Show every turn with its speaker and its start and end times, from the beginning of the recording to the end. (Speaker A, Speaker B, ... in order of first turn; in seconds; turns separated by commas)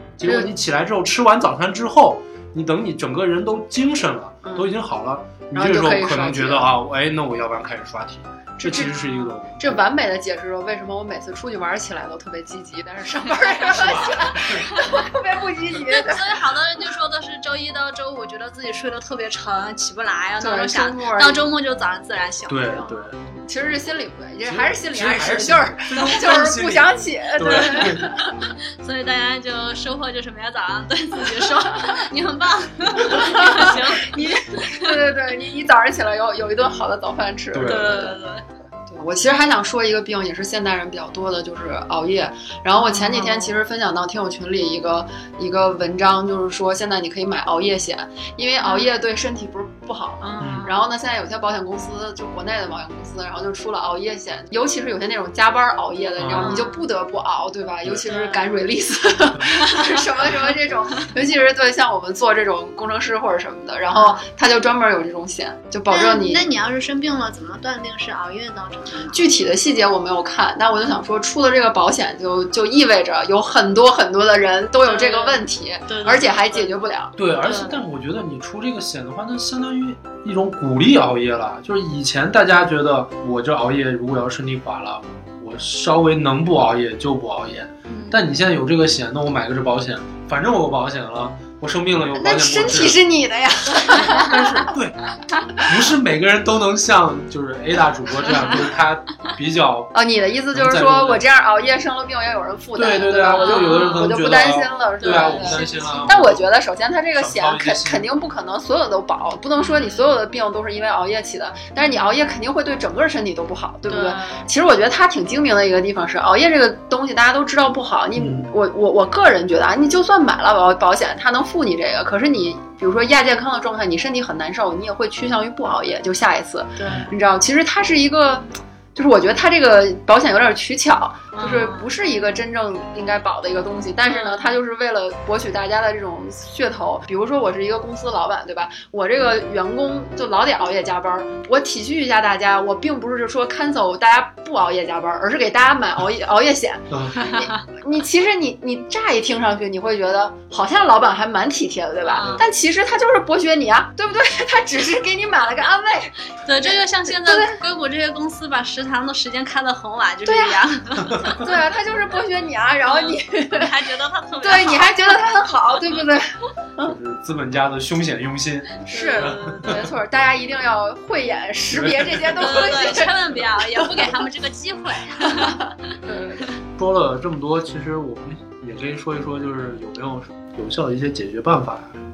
Speaker A: 0.2-9.8, Speaker B: 0.2-0.5, Speaker B: 4.4-4.7, Speaker B: 5.5-6.7, Speaker B: 8.6-16.3, Speaker C: 8.9-9.3, Speaker A: 13.7-14.7, Speaker C: 13.9-15.1, Speaker C: 15.7-22.9, Speaker B: 20.4-21.5, Speaker A: 22.5-23.2, Speaker B: 22.8-28.4, Speaker A: 24.4-28.1, Speaker C: 27.4-28.1, Speaker C: 28.8-35.0, Speaker B: 33.0-38.0, Speaker A: 37.5-38.1, Speaker C: 37.6-38.4, Speaker B: 38.9-66.5, Speaker C: 42.8-43.5, Speaker C: 48.6-48.9, Speaker C: 50.2-50.8, Speaker A: 50.4-50.7, Speaker A: 56.2-56.5, Speaker C: 56.4-56.9, Speaker C: 58.0-58.5, Speaker C: 59.5-60.0, Speaker C: 63.9-64.2, Speaker C: 65.9-69.2, Speaker B: 69.1-77.1, Speaker C: 74.8-76.7, Speaker A: 77.2-93.0, Speaker C: 77.4-77.8, Speaker C: 87.9-88.2, Speaker B: 92.1-94.7, Speaker A: 93.9-95.0, Speaker A: 95.6-99.9, Speaker B: 99.9-157.6, Speaker A: 100.5-101.2, Speaker A: 102.7-106.5, Speaker C: 103.3-104.0, Speaker C: 105.0-106.1, Speaker A: 107.2-108.1, Speaker C: 109.6-110.1, Speaker C: 111.8-112.1, Speaker C: 113.9-114.4, Speaker A: 118.2-118.5, Speaker C: 126.8-127.1, Speaker C: 131.3-131.9, Speaker C: 134.1-134.6, Speaker A: 146.9-147.2, Speaker C: 147.1-147.7, Speaker C: 152.1-152.4, Speaker A: 152.2-152.4, Speaker C: 156.4-161.4, Speaker B: 160.2-160.6, Speaker B: 161.2-163.7, Speaker C: 162.8-165.2, Speaker B: 164.4-166.2, Speaker A: 166.8-169.9, Speaker C: 168.9-169.8, Speaker B: 168.9-174.0, Speaker A: 171.7-172.5, Speaker C: 172.4-175.9, Speaker B: 175.2-176.5, Speaker A: 176.8-182.0